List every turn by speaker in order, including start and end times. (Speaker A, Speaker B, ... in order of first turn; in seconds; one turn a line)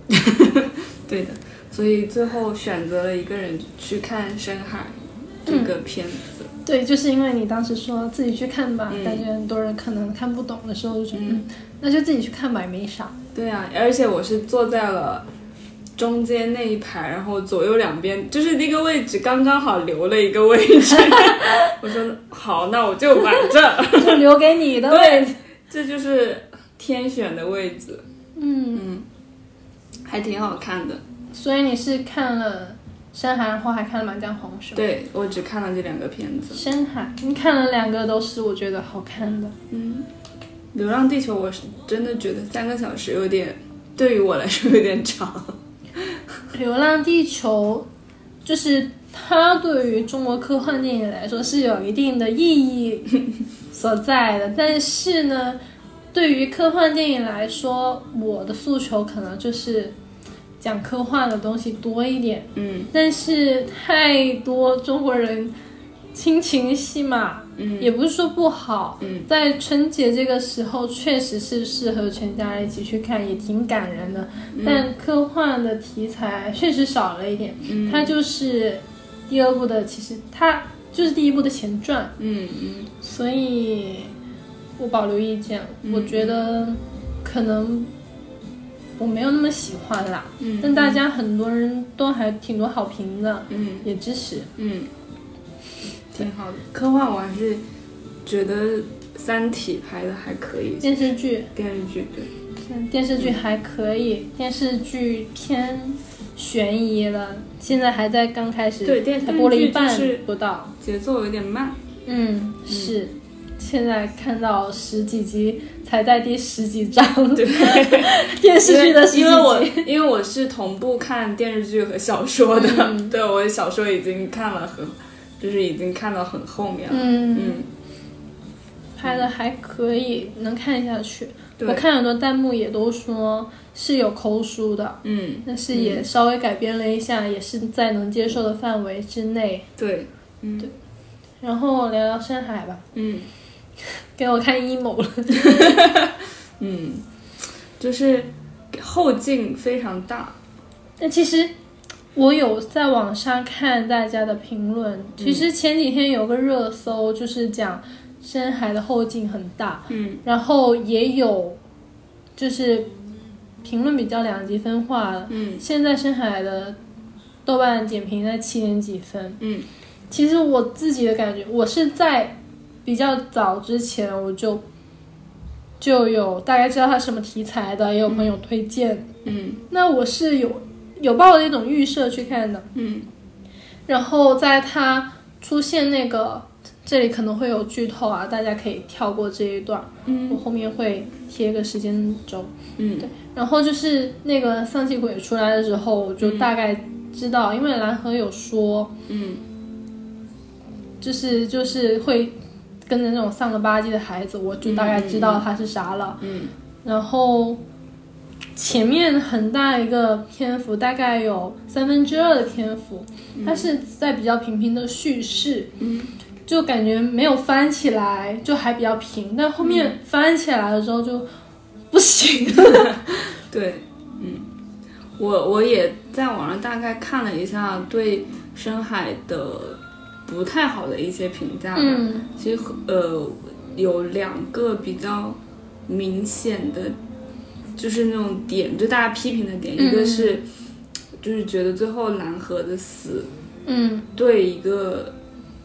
Speaker A: 0.1-6.5
Speaker B: 6.6-13.1
Speaker A: 8.9-9.2
Speaker A: 11.1-11.4
Speaker A: 13.3-15.2
Speaker A: 16.0-24.2
Speaker B: 21.1-21.7
Speaker B: 23.9-25.4
Speaker A: 24.9-28.0
Speaker B: 28.4-28.8
Speaker A: 28.7-29.1
Speaker A: 30.0-31.0
Speaker B: 31.3-34.8
Speaker A: 34.7-36.6
Speaker B: 36.5-39.5
Speaker A: 39.7-40.1
Speaker A: 40.7-45.6
Speaker B: 46.5-47.9
Speaker B: 48.4-53.1
Speaker B: 53.7-55.6
Speaker B: 56.1-59.9
Speaker B: 60.6-65.5
Speaker A: 62.5-62.9
Speaker B: 66.1-82.1
Speaker A: 67.6-67.9
Speaker A: 69.0-69.3
Speaker A: 74.5-74.8
Speaker A: 77.7-78.1
Speaker A: 82.2-82.9
Speaker B: 83.0-84.1
Speaker B: 84.8-87.9
Speaker A: 85.8-86.5
Speaker B: 89.0-94.5
Speaker A: 90.4-91.0
Speaker A: 93.5-93.8
Speaker A: 94.5-94.9
Speaker A: 96.1-97.6
Speaker A: 98.2-100.9
Speaker B: 100.8-101.5
Speaker A: 101.5-102.3
Speaker B: 102.6-110.7
Speaker A: 108.8-110.2
Speaker A: 110.8-111.8
Speaker B: 112.0-119.9
Speaker A: 117.3-127.7
Speaker B: 122.5-123.1
Speaker B: 126.9-127.6
Speaker B: 128.9-139.7
Speaker A: 131.6-131.8
Speaker A: 135.0-136.1
Speaker A: 139.8-140.7
Speaker B: 141.4-142.8
Speaker A: 142.9-143.3
Speaker B: 143.8-145.8
Speaker A: 145.4-150.4
Speaker B: 151.0-151.5
Speaker B: 152.1-161.6
Speaker A: 155.2-155.5
Speaker A: 159.9-160.2
Speaker B: 162.4-162.9
Speaker B: 163.6-166.8
Speaker A: 165.3-165.6
Speaker B: 167.4-169.4
Speaker A: 169.4-169.7
Speaker B: 170.1-174.6
Speaker B: 175.8-179.1
Speaker A: 179.2-179.6
Speaker B: 179.7-182.7
Speaker A: 182.7-183.1
Speaker B: 183.9-198.9
Speaker A: 190.0-190.4
Speaker A: 192.8-193.1
Speaker A: 196.2-196.5
Speaker A: 199.1-199.4
Speaker B: 201.0-206.2
Speaker A: 204.6-205.4
Speaker A: 206.2-206.5
Speaker B: 206.8-207.6
Speaker B: 208.6-215.7
Speaker A: 213.3-213.7
Speaker A: 215.8-216.1
Speaker B: 216.5-221.3
Speaker A: 219.6-219.9
Speaker B: 221.9-223.1
Speaker A: 222.6-224.5
Speaker A: 225.2-236.9
Speaker B: 231.7-232.3
Speaker A: 237.8-240.4
Speaker B: 239.8-240.4
Speaker A: 241.2-243.3
Speaker B: 243.7-244.1
Speaker A: 244.1-245.1